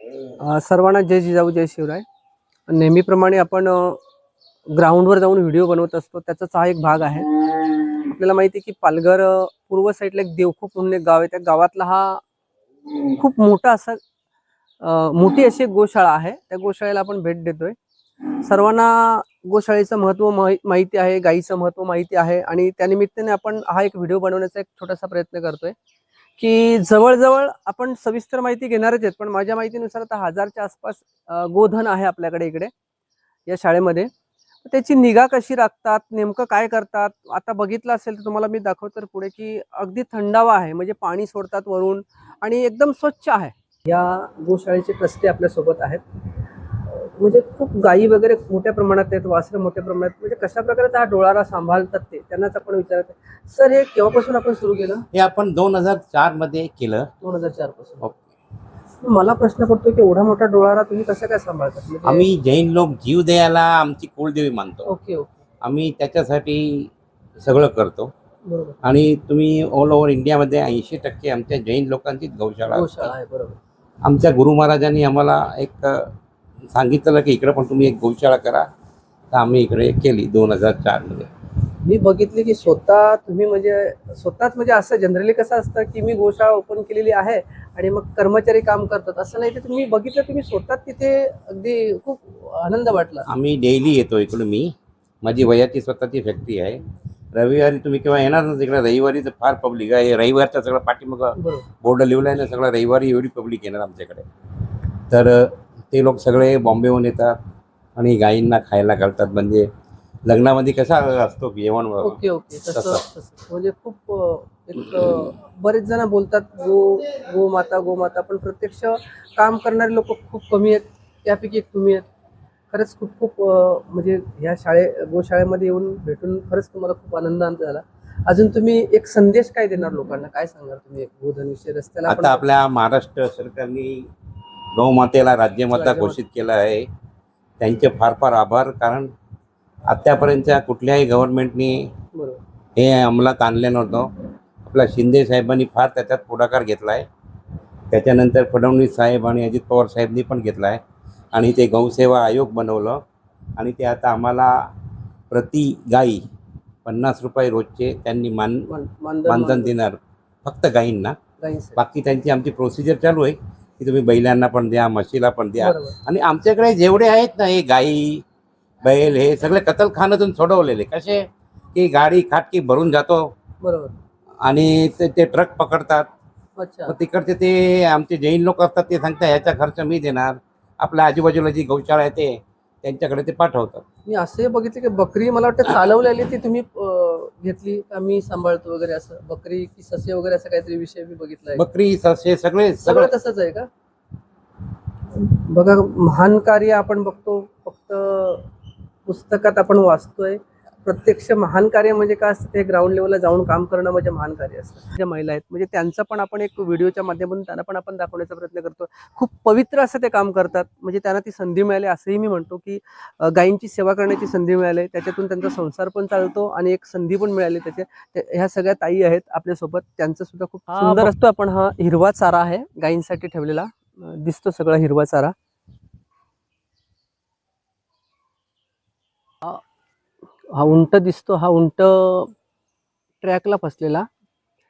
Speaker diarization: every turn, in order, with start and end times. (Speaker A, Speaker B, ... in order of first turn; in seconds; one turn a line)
Speaker A: 0.4-2.0
Speaker A: 2.7-4.0
Speaker A: 4.7-7.3
Speaker A: 8.1-12.2
Speaker A: 13.2-14.0
Speaker A: 14.8-17.8
Speaker A: 18.4-25.8
Speaker A: 26.4-32.7
Speaker A: 33.5-34.1
Speaker A: 34.6-46.0
Speaker A: 46.9-55.0
Speaker B: 55.1-57.1
Speaker A: 57.2-58.2
Speaker A: 59.0-62.3
Speaker B: 62.0-64.9
Speaker A: 64.9-65.3
Speaker B: 65.6-66.9
Speaker B: 67.4-68.1
Speaker A: 68.5-68.8
Speaker B: 68.8-73.1
Speaker A: 72.7-73.6
Speaker B: 74.0-76.1
Speaker B: 76.7-78.7
Speaker B: 79.3-81.3
Speaker A: 81.8-93.3
Speaker B: 93.3-96.8
Speaker B: 97.3-104.3
Speaker A: 101.4-101.7
Speaker B: 105.1-107.4
Speaker B: 108.0-109.7
Speaker B: 110.3-113.0
Speaker A: 112.0-122.1
Speaker A: 122.7-132.4
Speaker B: 132.1-134.1
Speaker B: 134.8-136.9
Speaker A: 135.7-136.2
Speaker B: 137.6-139.1
Speaker B: 139.9-141.9
Speaker A: 142.2-142.4
Speaker B: 142.8-144.1
Speaker B: 144.7-147.1
Speaker B: 147.9-150.8
Speaker B: 151.3-153.0
Speaker B: 153.6-154.6
Speaker B: 155.3-156.2
Speaker B: 156.8-158.7
Speaker A: 158.7-159.7
Speaker B: 159.3-161.2
Speaker A: 161.4-161.8
Speaker B: 161.8-168.2
Speaker A: 165.6-166.0
Speaker B: 168.8-173.3
Speaker A: 173.6-174.0
Speaker B: 174.4-176.1
Speaker A: 176.6-177.0
Speaker B: 176.9-183.8
Speaker A: 184.1-191.6
Speaker B: 191.6-193.1
Speaker A: 192.8-193.7
Speaker A: 195.1-198.5
Speaker A: 199.1-225.3
Speaker A: 230.5-232.3
Speaker A: 233.2-234.1